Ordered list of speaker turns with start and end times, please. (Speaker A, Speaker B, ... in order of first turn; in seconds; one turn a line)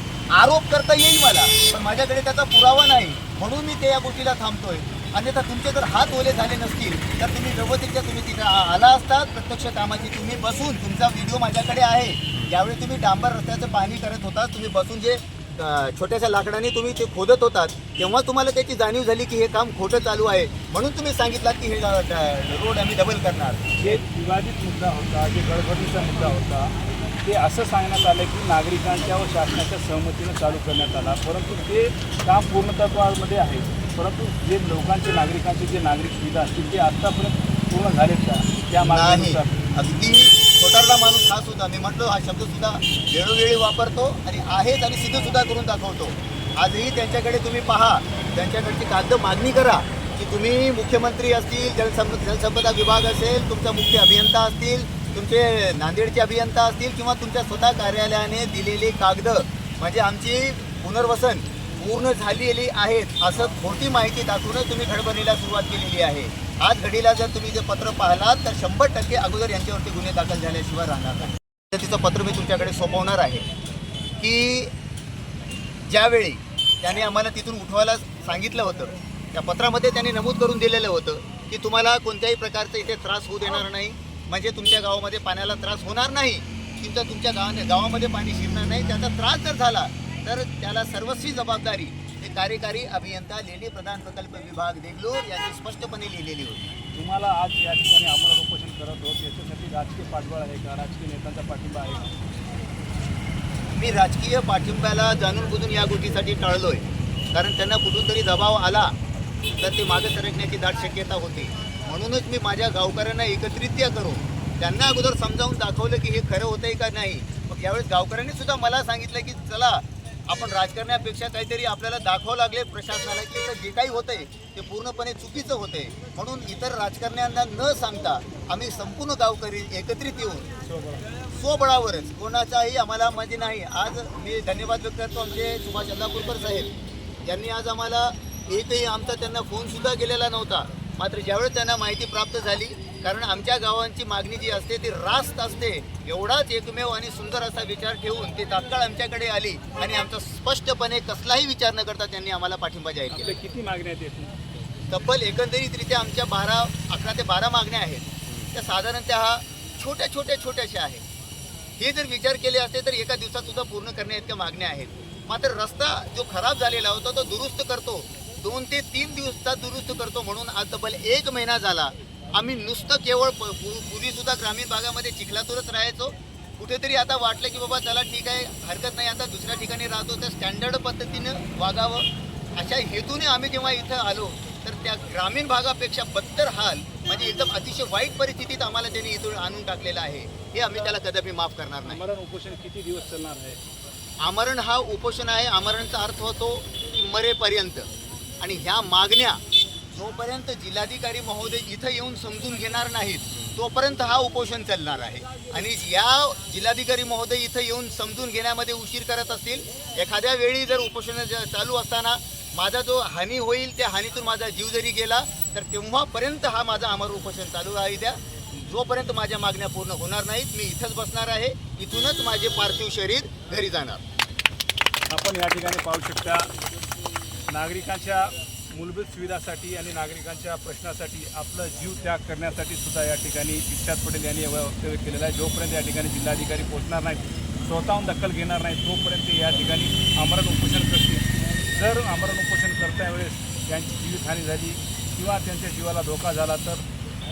Speaker A: 0.3-23.6
Speaker B: 23.8-39.6
Speaker A: 38.8-73.5
Speaker A: 74.2-74.7
Speaker A: 75.9-96.6
Speaker B: 96.9-102.1
Speaker A: 103.7-108.9
Speaker A: 109.6-130.5
Speaker B: 130.6-131.1
Speaker A: 131.3-136.7
Speaker A: 137.2-153.3
Speaker B: 153.1-154.3
Speaker A: 154.9-161.0
Speaker A: 161.8-192.0
Speaker B: 191.8-193.6
Speaker A: 194.2-197.9
Speaker A: 198.4-199.4
Speaker A: 199.9-224.0
Speaker B: 225.1-226.5
Speaker B: 227.5-246.8